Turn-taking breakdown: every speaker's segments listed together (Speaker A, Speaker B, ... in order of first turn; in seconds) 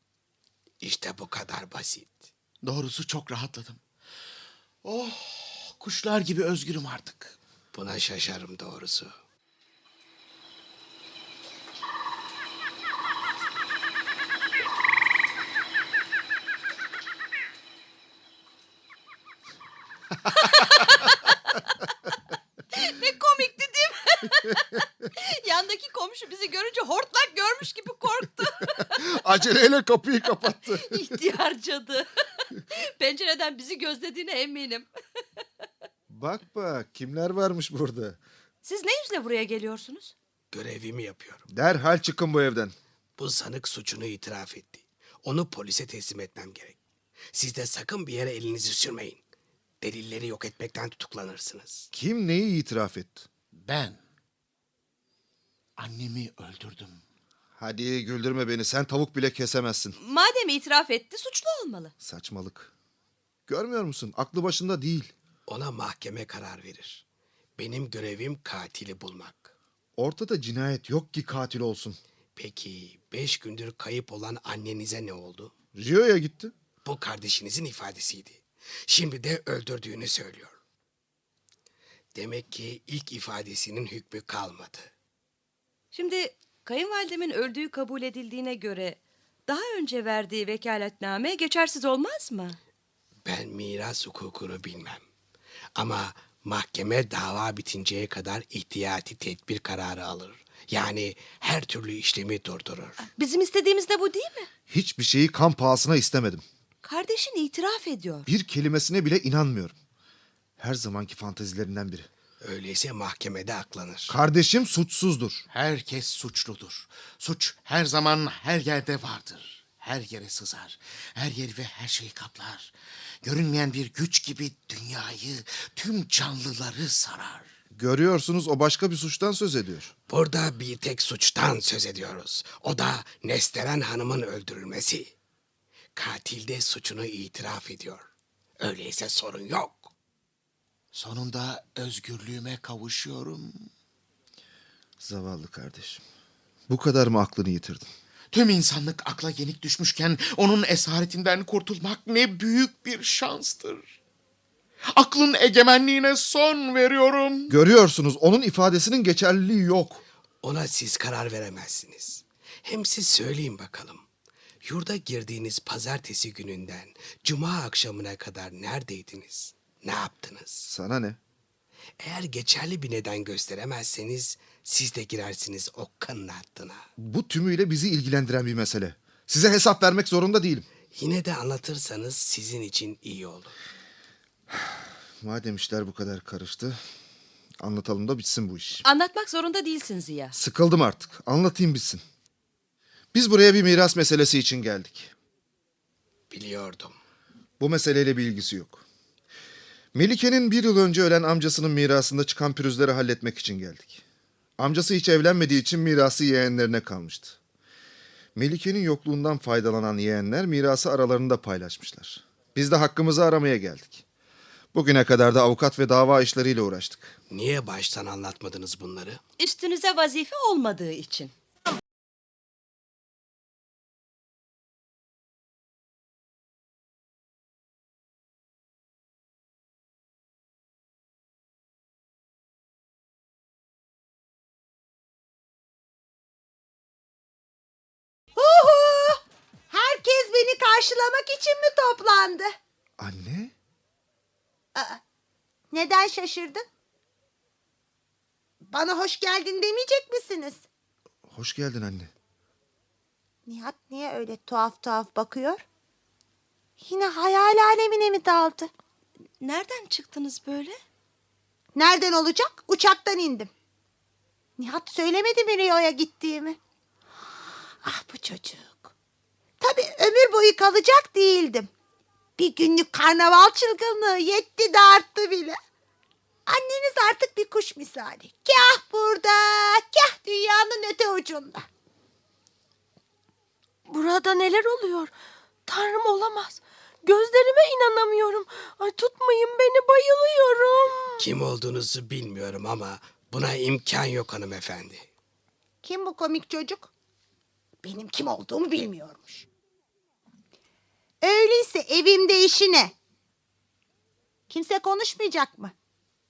Speaker A: 0.8-2.3, 7.7-9.2, 40.5-41.4, 43.2-46.8, 47.3-49.2, 49.8-51.9, 65.5-67.0, 67.6-69.5, 72.3-75.5, 76.8-80.6, 82.1-84.9, 93.2-95.0, 95.8-103.0, 112.4-114.1, 130.1-135.1, 135.9-138.1, 138.6-139.9, 160.4-164.1, 164.6-170.6, 172.0-176.8, 180.9-183.6, 196.3-197.0, 217.3-219.2, 291.2-295.1
Speaker B: 2.6-3.8, 4.8-7.3, 53.5-54.0, 55.8-57.0, 115.5-127.5, 140.9-143.7, 148.3-153.9, 154.9-157.5
Speaker C: 20.3-21.6, 22.7-29.0, 30.7-32.1, 32.7-34.9, 38.6-40.1, 60.0-61.9, 85.9-92.6, 103.0-104.5, 106.8-108.3, 188.8-190.4, 219.4-221.3, 259.4-260.8
Speaker D: 28.8-31.2, 36.1-38.2, 41.5-42.7, 51.9-53.2, 57.6-60.0, 62.0-62.7, 63.5-65.1, 70.0-72.0, 75.7-76.5, 104.7-106.4, 108.3-109.7, 110.6-112.1, 114.1-115.4, 127.7-129.9, 145.0-146.0, 146.7-147.9, 157.5-160.0, 170.6-171.2, 177.0-180.7, 184.5-186.8, 187.6-188.8, 190.3-192.0, 193.1-195.1, 197.6-198.8, 199.9-204.0, 204.6-207.4, 208.3-214.0, 214.7-217.1, 243.0-243.5, 251.3-252.1
Speaker E: 238.3-242.5, 244.7-245.0, 245.7-246.6, 248.7-250.7, 253.4-255.6, 256.8-258.7, 261.7-263.5, 264.6-266.6, 267.8-268.9, 269.6-271.7, 272.4-275.6, 276.5-281.6, 295.8-296.9, 297.8-299.5, 301.2-302.9, 304.5-305.7
Speaker F: 283.9-285.1, 285.6-291.2